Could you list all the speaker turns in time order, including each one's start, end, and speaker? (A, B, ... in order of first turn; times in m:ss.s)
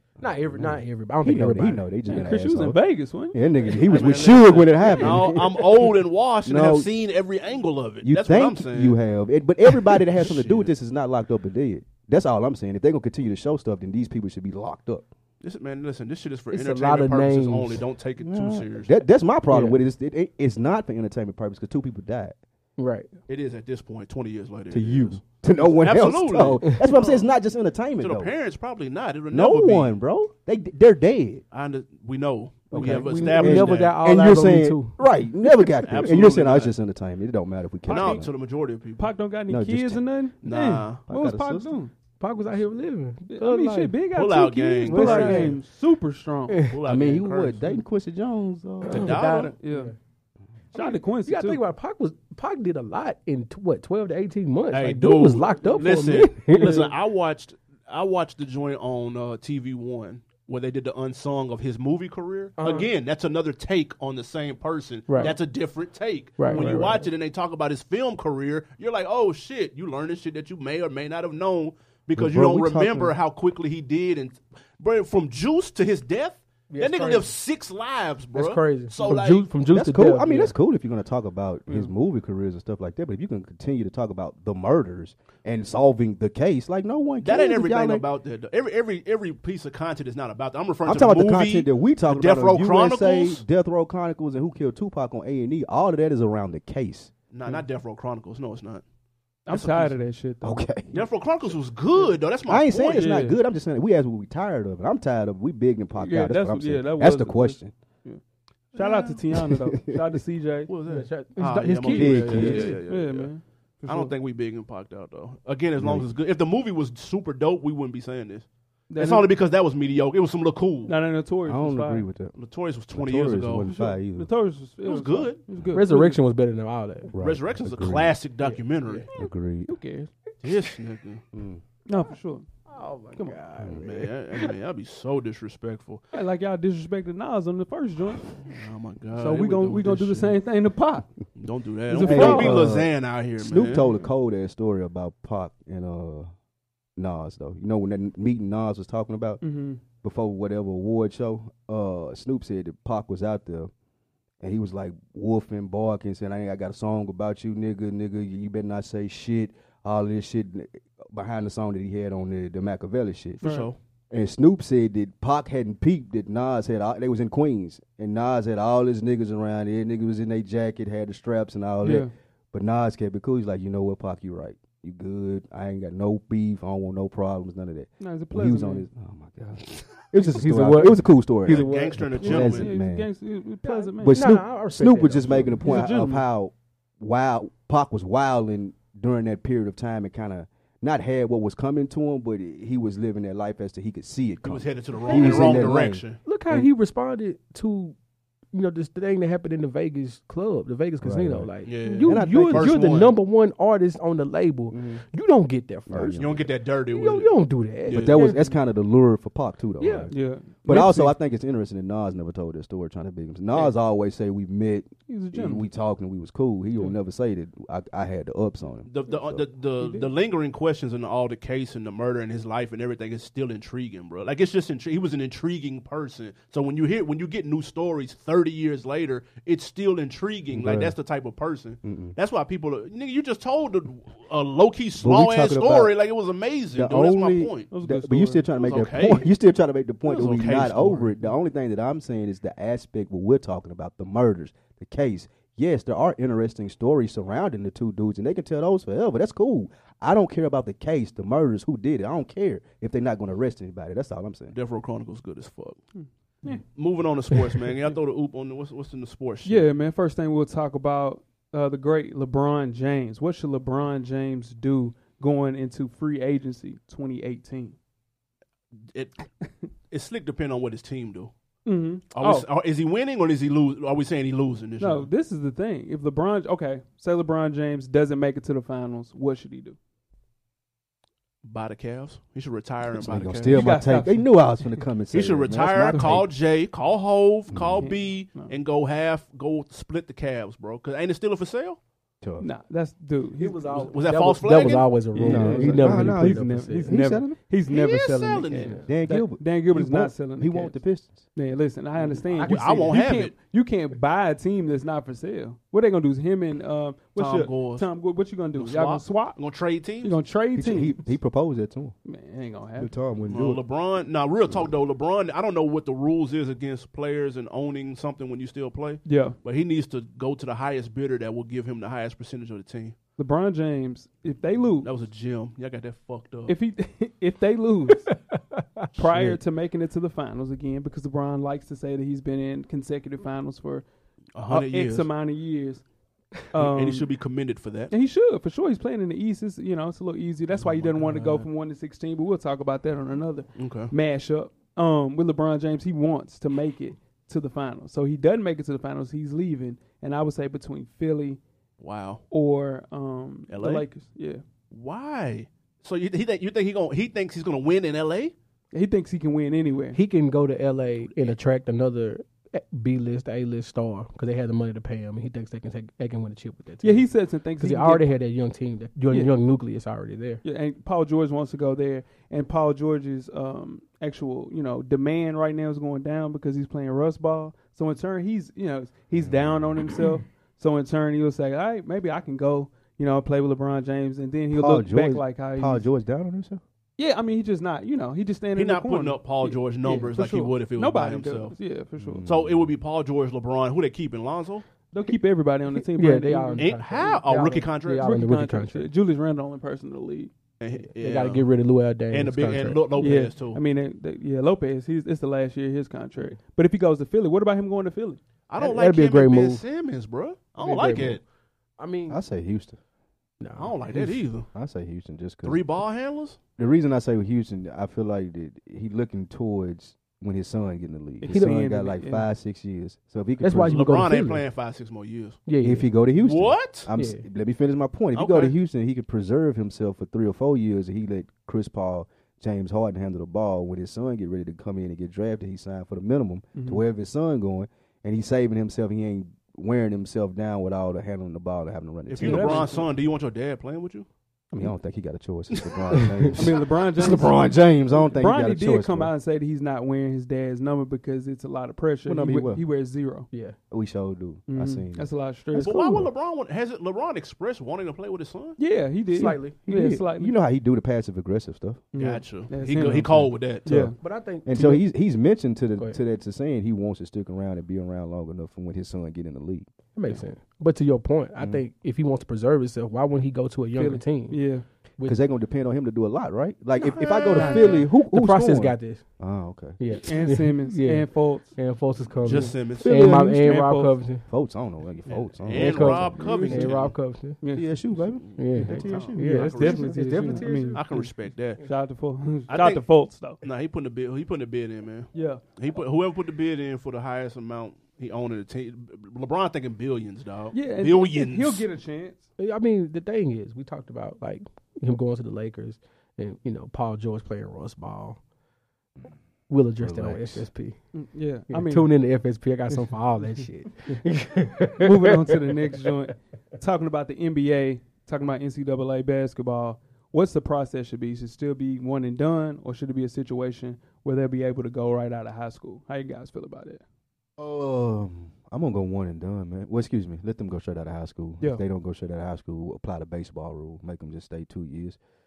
0:00.2-0:01.9 A
0:00.2-0:06.9 B
0:02.1-0:03.4 C
0:03.8-0:09.0 D
0:04.8-0:05.2 C
0:08.0-0:15.0 B
0:10.1-0:10.7 D
0:15.4-0:18.9 D
0:16.5-0:17.8 A
0:18.2-0:22.4 B
0:19.5-0:19.8 A
0:22.8-0:23.1 A
0:23.3-0:27.3 D
0:24.7-0:28.3 B
0:28.0-0:29.9 D
0:29.3-0:31.4 B
0:31.5-0:34.0 D
0:32.7-0:36.1 A
0:32.7-0:38.3 B
0:35.8-0:36.7 D
0:37.9-0:39.1 D
0:39.0-0:41.9 C
0:39.5-0:40.0 B
0:40.4-0:41.0 D
0:41.1-0:41.8 B
0:42.2-0:44.0 A
0:43.3-0:46.6 C
0:44.1-0:45.5 D
0:44.9-0:45.6 A
0:46.5-0:46.8 A
0:46.7-0:47.8 D
0:46.8-0:49.2 B
0:48.8-0:49.9 A
0:48.9-0:49.5 D
0:49.6-0:49.9 C
0:50.7-0:51.6 C
0:50.7-0:56.9 A
0:54.7-1:19.5 D
1:02.6-1:02.9 A
1:05.1-1:05.4 A
1:06.4-1:07.1 A
1:06.5-1:06.8 C
1:12.2-1:13.1 B
1:16.7-1:17.3 A
1:18.3-1:20.5 A
1:19.7-1:28.0 B
1:27.2-1:33.4 D
1:30.8-1:37.1 B
1:37.3-1:38.8 D
1:39.5-1:41.0 C
1:39.5-1:39.9 D
1:40.4-1:40.9 B
1:40.9-1:43.2 D
1:42.5-1:47.7 B
1:42.9-1:43.4 C
1:46.0-1:48.2 C
1:48.7-1:50.7 C
1:48.8-1:49.2 D
1:49.4-1:50.0 B
1:50.7-1:53.3 D
1:50.8-1:52.8 A
1:51.9-1:52.8 B
1:52.8-1:54.1 C
1:53.8-2:00.9 D
1:55.8-1:56.1 B
1:58.9-1:59.3 C
2:00.8-2:02.0 C
2:01.4-2:02.3 B
2:02.4-2:03.7 D
2:02.9-2:04.3 B
2:03.6-2:06.2 C
2:04.8-2:05.4 D
2:05.7-2:07.1 A
2:07.1-2:08.2 B
2:07.2-2:09.1 D
2:08.5-2:09.0 A
2:09.1-2:09.8 B
2:09.7-2:10.1 C
2:10.4-2:11.2 D
2:11.3-2:11.6 B
2:11.9-2:12.4 C
2:12.7-2:14.5 A
2:13.7-2:16.0 D
2:16.1-2:18.3 C
2:18.4-2:20.4 D
2:19.2-2:21.1 C
2:21.4-2:23.8 D
2:21.9-2:22.7 C
2:22.0-2:26.3 B
2:27.0-2:29.4 B
2:29.4-2:29.8 C
2:30.0-2:33.7 B
2:34.4-2:43.4 B
2:43.4-2:43.8 D
2:43.4-2:43.7 C
2:44.1-3:03.1 B
2:51.8-2:52.1 C
2:58.0-2:58.8 C
3:00.2-3:02.4 A
3:01.4-3:02.7 D
3:02.2-3:04.3 C
3:03.6-3:05.8 A
3:04.0-3:16.7 B
3:05.6-3:06.2 C
3:14.4-3:16.2 D
3:15.0-3:18.0 A
3:18.5-3:28.5 A
3:21.0-3:22.8 B
3:21.6-3:23.1 D
3:24.7-3:25.0 B
3:25.9-3:26.4 B
3:26.2-3:28.2 D
3:27.9-3:39.4 B
3:29.8-3:30.1 A
3:30.1-3:31.1 C
3:35.1-3:35.7 C
3:38.8-3:57.7 D
3:39.8-3:40.1 C
3:50.5-3:50.9 B
3:51.8-3:52.2 B
3:55.0-3:55.9 B
3:56.7-4:14.5 B
3:57.7-3:58.4 C
3:58.6-3:59.3 D
4:00.0-4:01.1 D
4:14.5-4:15.8 D
4:16.0-4:16.6 C
4:16.6-4:19.7 D
4:19.4-4:27.8 C
4:28.9-4:29.2 D
4:29.9-4:31.3 D
4:31.6-4:32.4 C
4:32.1-4:35.1 D
4:34.8-4:39.8 C
4:41.4-4:43.7 D
4:43.0-4:46.3 B
4:43.5-4:44.8 C
4:45.1-4:51.8 D
4:45.9-4:46.2 C
4:47.5-4:47.9 B
4:47.8-4:48.5 C
4:52.2-4:52.5 B
4:52.4-4:53.9 C
4:53.4-4:57.0 A
4:53.7-4:55.0 D
4:55.1-5:00.8 C
4:55.2-4:57.4 B
4:57.7-4:58.8 D
4:58.6-4:58.9 A
4:58.8-5:01.2 B
5:01.3-5:09.4 C
5:02.3-5:02.7 A
5:02.4-5:03.3 D
5:07.2-5:07.9 D
5:08.5-5:10.2 D
5:10.0-5:11.0 C
5:10.5-5:11.9 B
5:12.0-5:12.9 C
5:12.8-5:13.6 B
5:13.3-5:22.9 D
5:19.0-5:19.4 C
5:23.2-5:24.9 C
5:24.8-5:26.5 D
5:26.5-5:28.1 C
5:28.1-5:28.4 A
5:28.9-5:33.9 C
5:29.0-5:29.3 A
5:34.3-5:35.1 D
5:34.5-5:35.8 C
5:36.5-5:37.1 C
5:36.6-5:37.9 D
5:37.9-5:51.4 C
5:40.7-5:41.3 D
5:43.5-5:43.9 D
5:51.8-5:52.2 D
5:52.3-5:54.4 C
5:53.5-5:53.9 D
5:54.7-5:58.3 D
5:58.7-6:00.0 C
5:59.9-6:10.4 A
6:01.0-6:01.3 D
6:06.8-6:08.1 C
6:10.4-6:25.9 C
6:19.1-6:19.8 B
6:24.5-6:26.6 B
6:27.0-6:32.2 C
6:28.5-6:31.6 D
6:32.0-6:32.7 B
6:32.2-6:34.6 D
6:34.9-6:36.8 C
6:35.8-6:38.9 A
6:36.6-6:38.1 D
6:38.0-6:40.3 C
6:40.6-6:41.5 D
6:41.0-6:42.8 A
6:42.1-6:43.6 D
6:43.0-6:48.2 C
6:48.5-6:51.2 D
6:48.6-6:49.6 A
6:50.6-6:51.2 A
6:51.8-6:52.2 A
6:52.1-6:52.8 B
6:53.4-6:54.2 A
6:53.6-6:54.5 D
6:54.5-6:55.6 B
6:55.4-6:56.4 D
6:56.6-7:04.1 B
7:01.2-7:02.3 C
7:01.3-7:01.6 A
7:03.4-7:04.4 A
7:03.7-7:05.4 D
7:05.4-7:05.9 A
7:05.6-7:22.7 B
7:06.2-7:06.9 D
7:06.9-7:07.2 A
7:08.1-7:08.6 D
7:16.5-7:16.8 C
7:22.1-7:24.1 D
7:22.2-7:22.8 C
7:24.5-7:29.1 B
7:26.3-7:33.3 C
7:32.0-7:32.6 B
7:33.3-7:33.6 A
7:33.7-7:35.1 B
7:34.5-7:36.0 C
7:35.5-7:38.6 D
7:38.6-7:40.3 C
7:39.1-7:39.6 A
7:39.2-7:41.9 B
7:41.9-7:43.9 C
7:42.0-7:43.9 D
7:42.8-7:43.3 B
7:43.7-7:44.8 A
7:44.4-7:49.7 B
7:49.9-7:54.4 A
7:53.7-7:54.6 C
7:55.0-7:59.8 B
7:56.8-7:57.8 D
7:57.4-7:59.0 A
7:57.4-7:57.8 C
7:59.8-8:04.2 A
8:00.0-8:01.6 C
8:02.2-8:02.9 D
8:02.6-8:03.5 B
8:03.3-8:04.0 C
8:04.3-8:06.2 B
8:05.1-8:06.9 D
8:05.5-8:07.4 A
8:06.2-8:06.7 C
8:07.4-8:07.7 C
8:07.5-8:09.6 B
8:08.1-8:11.6 D
8:08.4-8:10.8 A
8:09.2-8:13.4 C
8:12.5-8:12.9 D
8:13.4-8:21.6 D
8:15.1-8:15.4 C
8:20.5-8:22.2 C
8:22.4-8:28.2 A
8:29.5-8:30.8 A
8:29.8-8:30.5 B
8:30.9-8:31.9 C
8:31.5-8:35.5 A
8:34.8-8:46.8 C
8:47.4-8:55.0 B